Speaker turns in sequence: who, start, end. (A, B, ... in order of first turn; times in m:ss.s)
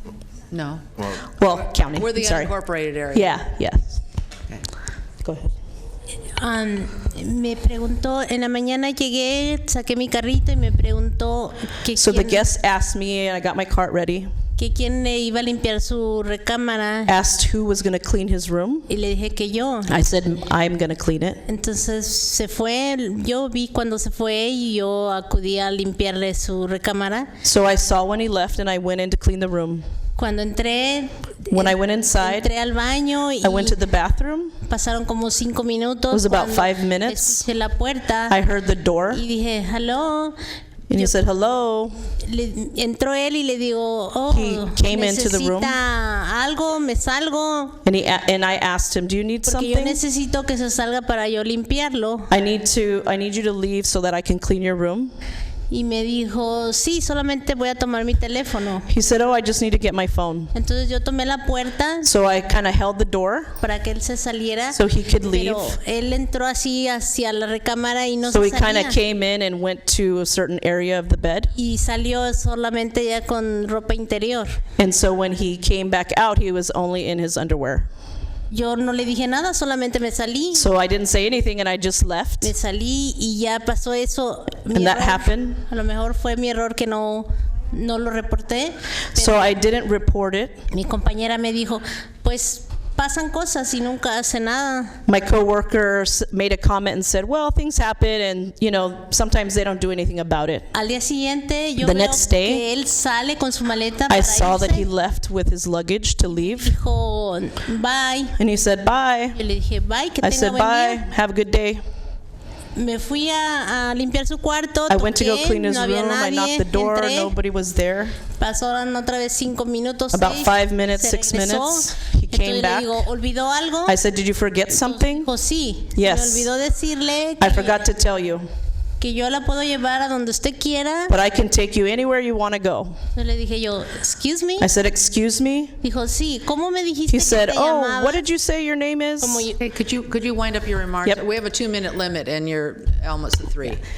0:00.5-0:00.9 A
0:01.2-0:02.5 B
0:01.8-0:03.3 A
0:03.1-0:04.0 B
0:05.2-0:05.5 B
0:06.3-0:12.4 C
0:12.0-0:14.3 B
0:14.6-0:17.1 C
0:17.0-0:18.9 B
0:18.9-0:20.0 C
0:19.9-0:21.4 B
0:21.4-0:27.3 C
0:27.4-0:29.8 B
0:30.2-0:33.8 C
0:31.5-0:32.5 B
0:33.4-0:34.6 B
0:34.6-0:38.4 C
0:36.1-0:37.4 B
0:38.3-0:39.2 B
0:39.1-0:40.4 C
0:40.9-0:42.0 B
0:40.9-0:41.2 C
0:42.2-0:47.8 C
0:44.3-0:45.8 B
0:47.8-0:50.0 B
0:49.4-0:52.3 C
0:52.3-0:55.1 B
0:55.7-0:58.9 C
0:58.9-1:00.5 B
1:00.5-1:02.1 C
1:02.0-1:03.6 B
1:03.6-1:09.0 C
1:04.7-1:05.8 B
1:08.2-1:11.5 B
1:11.5-1:14.6 C
1:14.8-1:17.9 B
1:18.5-1:20.7 C
1:20.5-1:22.5 B
1:22.4-1:29.5 C
1:24.7-1:25.6 B
1:29.1-1:30.6 B
1:30.7-1:35.0 C
1:35.0-1:40.7 B
1:40.7-1:44.9 C
1:41.8-1:42.6 B
1:44.1-1:46.8 B
1:46.2-1:48.4 C
1:48.4-1:49.4 B
1:49.3-1:51.0 C
1:50.2-1:51.8 B
1:52.7-1:57.3 C
1:54.9-1:58.2 B
1:58.3-2:04.0 C
2:00.1-2:02.9 B
2:03.8-2:05.3 B
2:04.7-2:07.8 C
2:05.9-2:06.5 B
2:07.4-2:08.4 B
2:09.0-2:11.1 C
2:11.1-2:13.0 B
2:13.1-2:14.7 C
2:14.6-2:15.7 B
2:15.8-2:18.2 C
2:17.1-2:19.5 B
2:19.2-2:19.6 C
2:19.6-2:23.8 A